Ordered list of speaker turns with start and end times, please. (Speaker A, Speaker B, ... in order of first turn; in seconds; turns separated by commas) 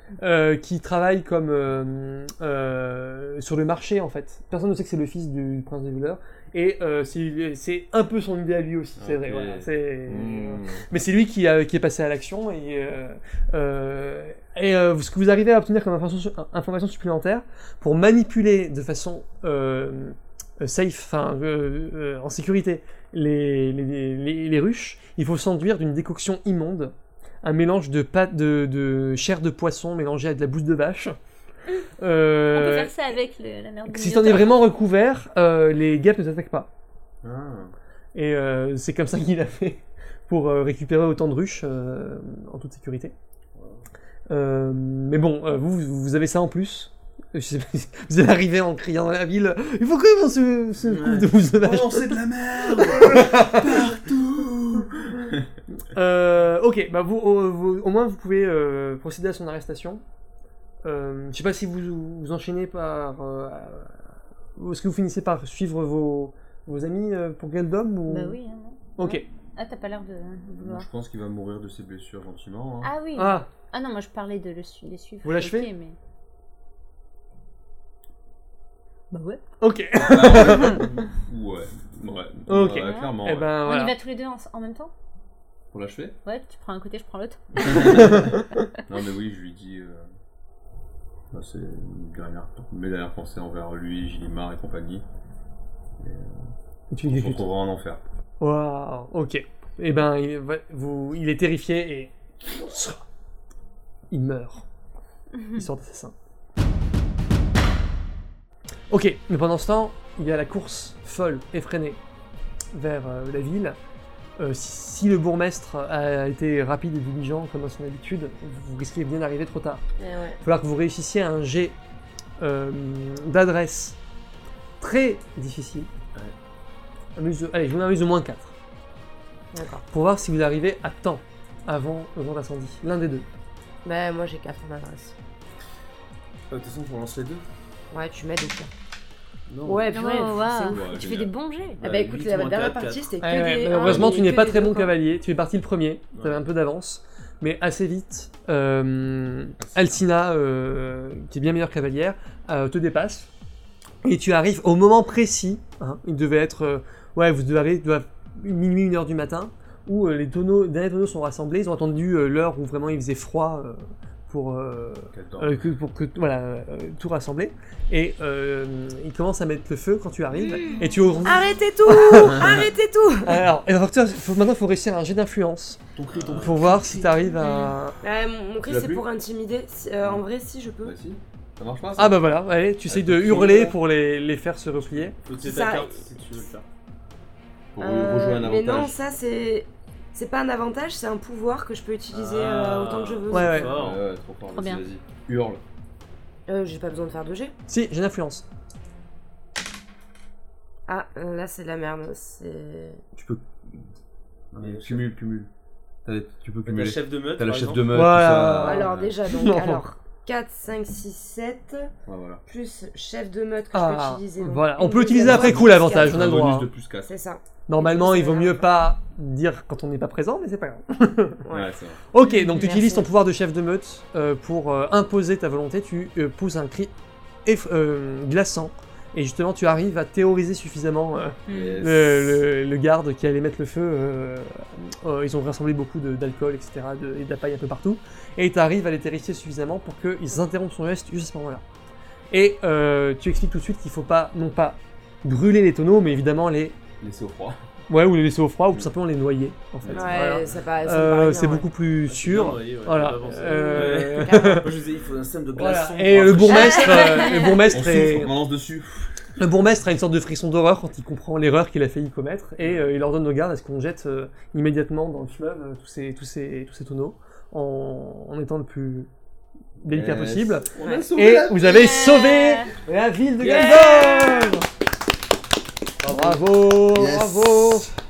Speaker A: 0.2-31.2, Speaker B: 9.0-10.8, Speaker A: 32.0-32.9, Speaker C: 32.5-34.6, Speaker A: 33.9-36.7, Speaker B: 37.2-37.7, Speaker A: 38.1-43.1, Speaker A: 44.3-53.9, Speaker D: 50.9-51.3, Speaker B: 51.6-55.5, Speaker D: 52.2-53.2, Speaker A: 55.9-60.0, Speaker A: 60.8-64.0, Speaker A: 64.6-68.4, Speaker C: 68.1-70.9, Speaker A: 69.0-69.2, Speaker B: 70.5-72.9, Speaker C: 72.8-76.0, Speaker A: 73.2-73.5, Speaker A: 75.2-75.7, Speaker C: 79.1-79.4, Speaker A: 79.6-80.8, Speaker B: 79.9-83.5, Speaker A: 82.5-84.0, Speaker C: 82.8-84.9, Speaker B: 85.7-86.2, Speaker C: 86.2-88.3, Speaker B: 87.6-90.1, Speaker A: 88.0-88.7, Speaker B: 91.3-95.0, Speaker B: 96.0-96.5, Speaker A: 96.9-97.5, Speaker B: 97.1-98.0, Speaker A: 98.4-103.1, Speaker A: 104.1-104.7, Speaker C: 105.3-105.6, Speaker A: 105.5-106.1, Speaker A: 108.9-112.0, Speaker A: 112.7-113.8, Speaker A: 114.4-119.8, Speaker E: 120.0-120.4, Speaker A: 120.4-121.8, Speaker A: 122.4-124.0, Speaker A: 124.8-125.9, Speaker A: 127.2-128.5, Speaker E: 129.5-129.8, Speaker A: 129.9-133.3, Speaker E: 133.8-135.1, Speaker D: 136.5-137.4, Speaker E: 137.9-138.7, Speaker D: 139.5-139.9, Speaker E: 139.7-141.0, Speaker C: 139.9-141.8, Speaker B: 140.7-141.3, Speaker D: 141.8-143.1, Speaker E: 141.8-145.0, Speaker A: 143.2-153.3, Speaker C: 143.7-144.1, Speaker B: 143.8-144.1, Speaker D: 146.2-146.4, Speaker B: 149.6-149.9, Speaker A: 154.0-172.5, Speaker B: 165.1-165.7, Speaker E: 171.2-173.4, Speaker B: 172.4-172.6, Speaker A: 173.2-175.8, Speaker B: 175.9-177.2, Speaker D: 176.1-176.6, Speaker A: 176.4-178.0, Speaker C: 177.4-177.7, Speaker E: 178.0-180.9, Speaker B: 178.6-179.1, Speaker B: 180.8-182.2, Speaker A: 182.0-185.2, Speaker B: 182.9-183.8, Speaker D: 183.3-183.6, Speaker D: 185.2-186.7, Speaker E: 185.4-186.5, Speaker B: 187.8-189.0, Speaker E: 187.8-193.9, Speaker D: 192.1-194.0, Speaker A: 193.3-193.8, Speaker B: 193.8-195.6, Speaker C: 194.5-194.8, Speaker E: 196.5-197.6, Speaker A: 197.7-198.4, Speaker E: 200.9-203.0, Speaker B: 203.2-203.9, Speaker B: 204.5-205.5, Speaker D: 204.6-205.1, Speaker B: 206.1-209.2, Speaker D: 206.7-207.8, Speaker A: 207.9-209.8, Speaker E: 208.6-211.9, Speaker B: 212.1-212.4, Speaker E: 212.5-216.4, Speaker A: 213.7-216.7, Speaker B: 215.2-217.1, Speaker E: 217.0-218.7, Speaker A: 217.7-221.4, Speaker E: 221.4-221.7, Speaker B: 221.5-222.0, Speaker A: 222.1-226.9, Speaker C: 222.2-223.1, Speaker A: 227.4-241.6, Speaker C: 231.5-231.8, Speaker B: 231.5-232.4, Speaker A: 242.3-246.8, Speaker B: 247.0-247.6, Speaker A: 247.9-254.7, Speaker B: 249.8-250.2, Speaker E: 249.9-251.7, Speaker D: 252.1-257.1, Speaker E: 253.4-254.7, Speaker A: 255.6-258.3, Speaker C: 256.5-257.6, Speaker B: 257.6-259.3, Speaker A: 259.4-269.1, Speaker D: 262.6-262.9, Speaker B: 269.8-271.7, Speaker A: 269.8-274.7, Speaker E: 270.8-271.1, Speaker C: 271.6-272.7, Speaker D: 273.4-273.8, Speaker E: 273.5-274.6, Speaker D: 276.0-276.4, Speaker A: 276.1-277.9, Speaker B: 276.7-277.9